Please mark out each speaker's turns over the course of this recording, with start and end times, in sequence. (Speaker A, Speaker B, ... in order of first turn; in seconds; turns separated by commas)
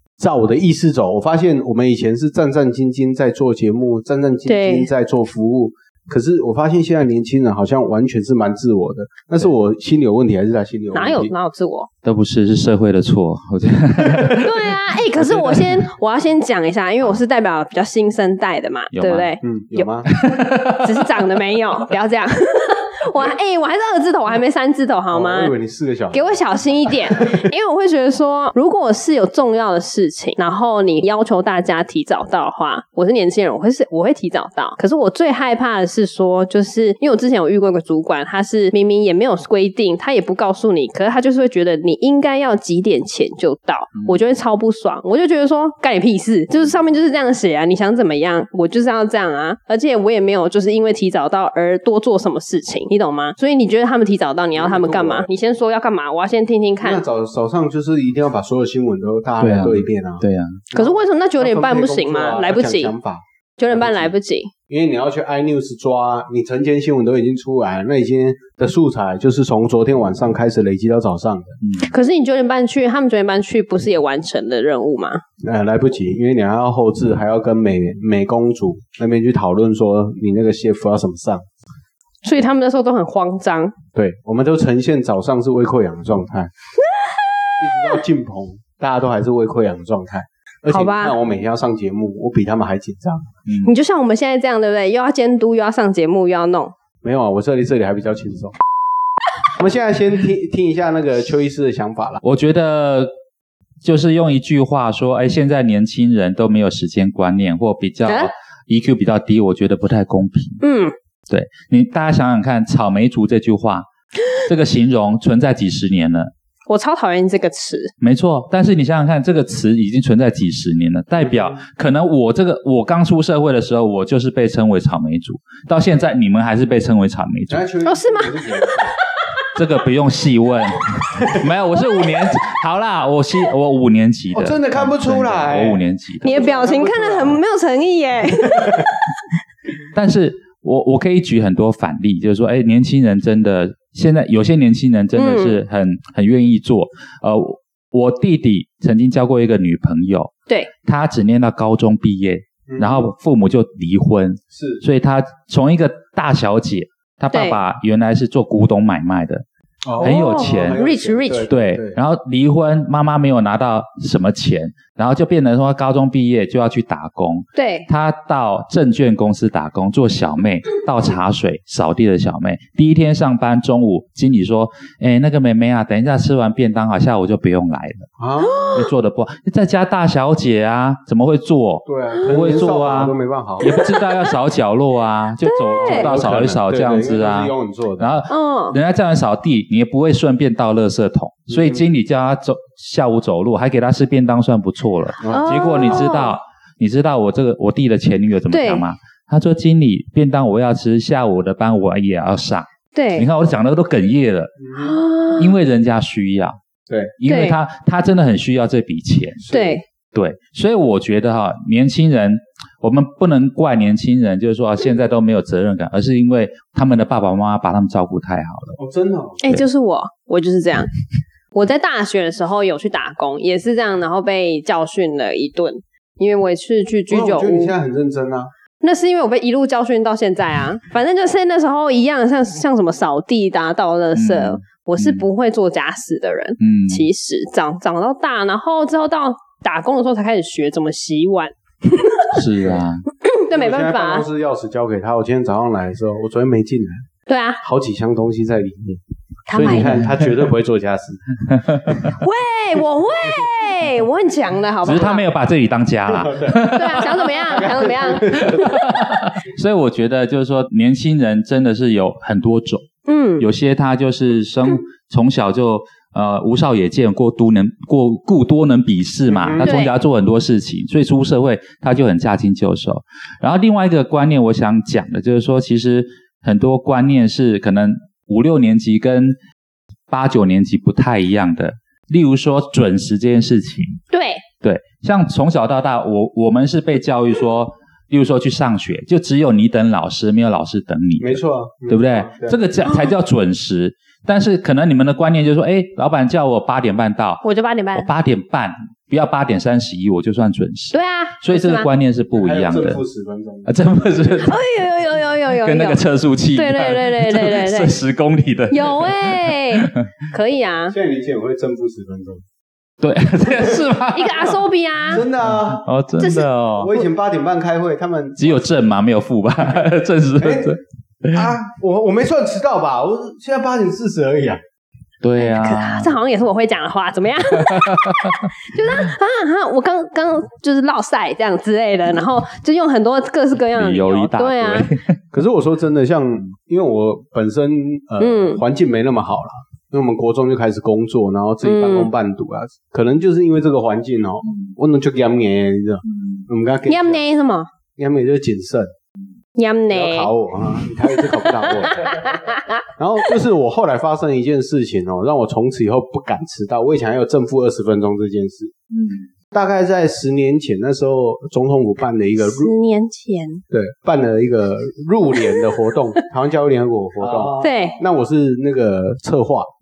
Speaker A: 0.2-11.3, Speaker B: 4.5-4.9, Speaker B: 10.9-11.9, Speaker C: 12.0-15.8, Speaker B: 14.2-19.9, Speaker C: 18.9-19.4, Speaker A: 19.4-20.1, Speaker C: 20.1-21.1, Speaker B: 20.7-25.5, Speaker A: 25.1-26.4, Speaker B: 26.1-57.0, Speaker C: 43.9-44.2, Speaker A: 54.5-55.3, Speaker A: 56.8-64.1, Speaker C: 59.4-60.6, Speaker B: 60.7-62.9, Speaker B: 63.6-64.5, Speaker A: 64.7-71.6, Speaker C: 71.6-72.0, Speaker B: 71.9-75.2, Speaker A: 75.4-81.4, Speaker B: 82.2-83.7, Speaker A: 83.9-86.5, Speaker B: 86.8-88.0, Speaker A: 87.6-93.3, Speaker B: 90.7-91.2, Speaker C: 93.5-93.7, Speaker B: 93.6-96.7, Speaker A: 97.0-98.5, Speaker A: 99.5-102.2, Speaker C: 102.2-103.1, Speaker C: 103.8-110.6, Speaker B: 110.6-110.9, Speaker C: 111.3-113.9, Speaker C: 114.4-116.3, Speaker B: 116.7-117.9, Speaker C: 118.0-127.7, Speaker A: 121.2-121.6, Speaker A: 127.5-128.9, Speaker B: 127.8-129.5, Speaker C: 129.5-136.4, Speaker B: 131.8-132.2, Speaker A: 134.3-137.4, Speaker B: 136.2-139.2, Speaker A: 138.5-138.9, Speaker C: 139.9-150.3, Speaker B: 145.2-145.6, Speaker C: 150.8-159.4, Speaker A: 152.7-153.1, Speaker A: 154.5-154.8, Speaker B: 157.3-157.6, Speaker A: 159.8-162.0, Speaker C: 160.0-160.8, Speaker B: 160.0-161.5, Speaker C: 161.5-178.1, Speaker B: 167.6-167.9, Speaker A: 178.2-178.7, Speaker B: 178.4-178.9, Speaker C: 178.7-204.5, Speaker A: 181.8-183.7, Speaker B: 183.6-184.3, Speaker B: 185.4-186.1, Speaker A: 185.8-188.1, Speaker B: 188.3-188.8, Speaker A: 191.5-191.8, Speaker A: 195.2-196.0, Speaker B: 195.3-196.4, Speaker B: 198.5-198.8, Speaker B: 202.9-203.3, Speaker A: 204.6-205.0, Speaker B: 204.8-205.5, Speaker C: 205.3-206.6, Speaker A: 206.9-207.1, Speaker C: 207.2-209.4, Speaker B: 207.2-207.6, Speaker A: 209.4-209.8, Speaker B: 209.5-209.8, Speaker C: 210.1-218.8, Speaker A: 218.8-219.4, Speaker B: 219.4-220.9, Speaker B: 221.5-227.7, Speaker A: 227.1-228.5, Speaker B: 228.8-242.4, Speaker C: 234.1-235.3, Speaker C: 236.6-237.1, Speaker C: 242.3-243.0, Speaker B: 243.2-244.2, Speaker A: 243.5-247.1, Speaker B: 247.3-247.6, Speaker A: 247.6-252.0, Speaker B: 249.5-250.0, Speaker C: 249.6-250.4, Speaker C: 251.5-252.1, Speaker B: 252.1-255.2, Speaker C: 254.8-279.4, Speaker A: 256.1-257.0, Speaker B: 256.6-258.7, Speaker A: 257.5-259.0, Speaker B: 263.1-263.5, Speaker A: 269.3-269.8, Speaker B: 269.6-269.9, Speaker C: 280.1-284.0, Speaker B: 284.1-284.4, Speaker C: 284.6-297.4, Speaker A: 291.2-292.6, Speaker B: 297.4-298.1, Speaker C: 297.9-303.0, Speaker B: 300.9-301.9, Speaker A: 302.4-304.4, Speaker C: 303.6-304.6, Speaker B: 304.4-306.0, Speaker C: 305.6-310.1, Speaker B: 306.5-308.0, Speaker B: 308.7-310.9, Speaker A: 310.9-312.4, Speaker C: 313.0-314.6, Speaker B: 314.1-315.2, Speaker A: 315.1-315.9, Speaker C: 315.4-316.9, Speaker B: 316.2-316.5, Speaker A: 316.8-318.6, Speaker C: 318.4-321.5, Speaker A: 320.4-320.7, Speaker A: 321.3-324.6, Speaker C: 325.2-326.2, Speaker B: 325.4-334.9, Speaker C: 327.5-328.5, Speaker C: 333.7-335.2, Speaker A: 335.3-347.2, Speaker B: 338.2-338.6, Speaker B: 341.6-342.1, Speaker C: 346.1-346.4, Speaker B: 346.9-347.7, Speaker A: 347.9-348.9, Speaker B: 349.6-350.3, Speaker A: 349.9-352.2, Speaker B: 351.2-352.8, Speaker A: 353.0-358.7, Speaker C: 358.9-359.2, Speaker A: 359.5-362.7, Speaker B: 362.4-363.6, Speaker A: 363.7-369.7, Speaker C: 367.2-367.6, Speaker B: 367.6-368.0